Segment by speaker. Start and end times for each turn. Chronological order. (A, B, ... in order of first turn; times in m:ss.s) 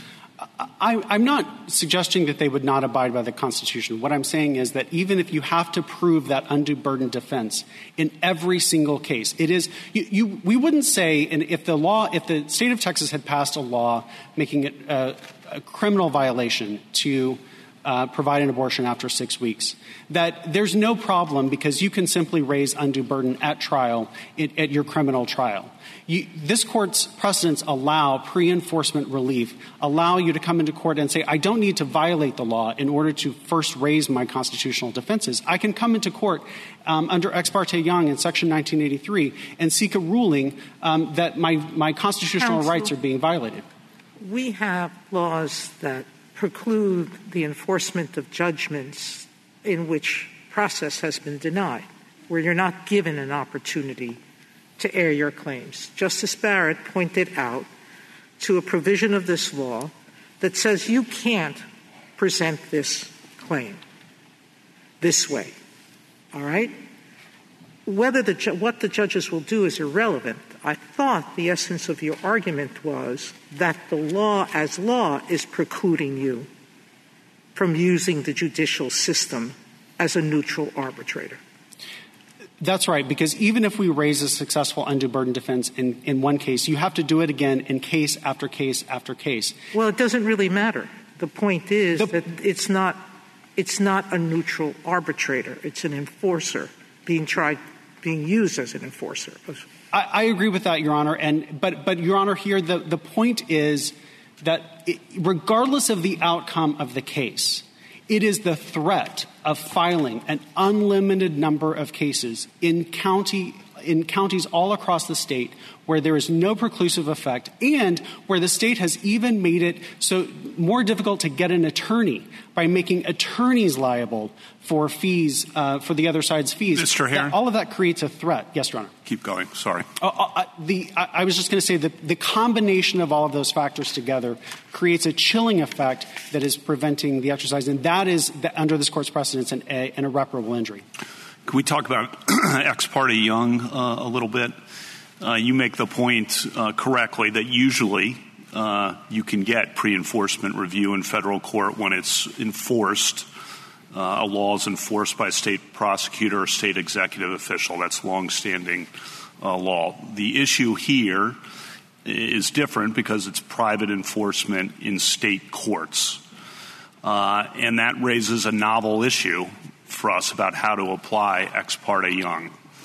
0:00.4-0:43.6 A
0:42.4-0:42.9 B
0:44.2-0:54.2 B
0:54.8-0:57.7 B
0:58.4-1:01.6 B
1:02.2-1:03.8 B
1:05.0-1:05.5 B
1:06.3-1:06.8 B
1:07.8-1:16.5 B
1:17.5-1:21.4 B
1:22.6-1:29.6 A
1:29.7-1:39.6 B
1:39.9-2:08.9 A
2:06.7-2:07.3 C
2:09.1-2:09.9 C
2:10.0-2:20.8 A
2:21.4-2:24.5 C
2:25.2-2:33.3 C
2:33.9-2:38.9 C
2:39.4-2:41.4 C
2:42.0-2:46.2 C
2:47.0-2:52.5 C